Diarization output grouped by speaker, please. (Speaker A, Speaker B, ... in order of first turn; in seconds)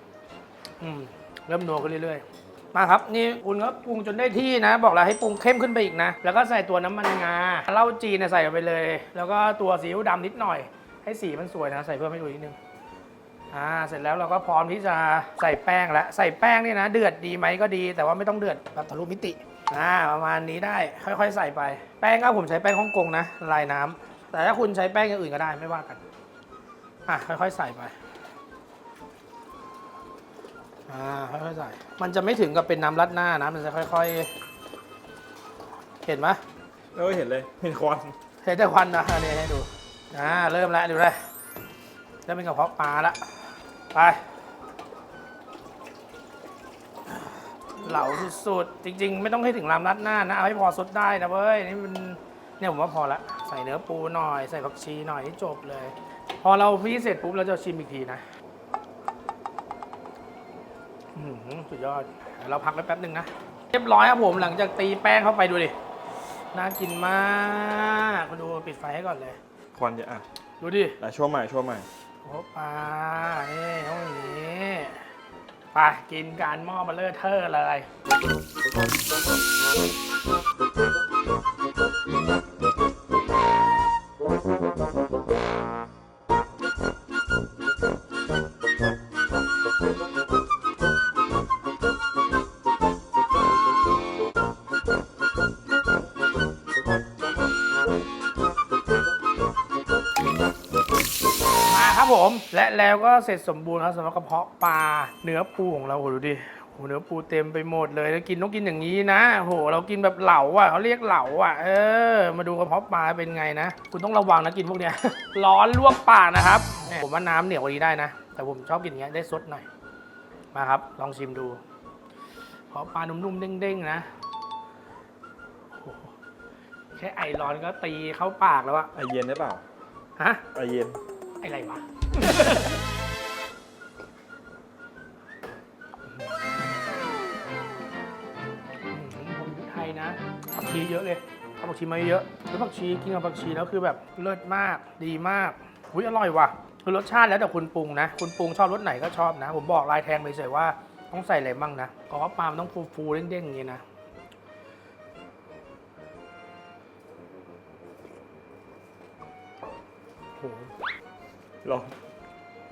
Speaker A: 0.8-12.6, 13.5-26.0, 27.1-28.0, 30.9-34.3, 36.0-36.4, 38.4-41.2, 42.2-43.4, 43.9-44.2, 47.8-58.2, 61.1-65.7, 66.5-69.4, 70.6-71.0, 72.2-75.1, 75.7-77.9, 101.7-119.7, 120.5-121.6, 122.7-124.1, 125.7-126.1, 126.9-128.9, 130.2-130.4, 131.4-132.8, 136.1-136.5, 138.9-153.8, 160.4-160.7
Speaker B: 36.9-38.1, 69.7-70.2, 71.0-71.9, 128.9-129.6, 130.5-131.0, 161.6-161.9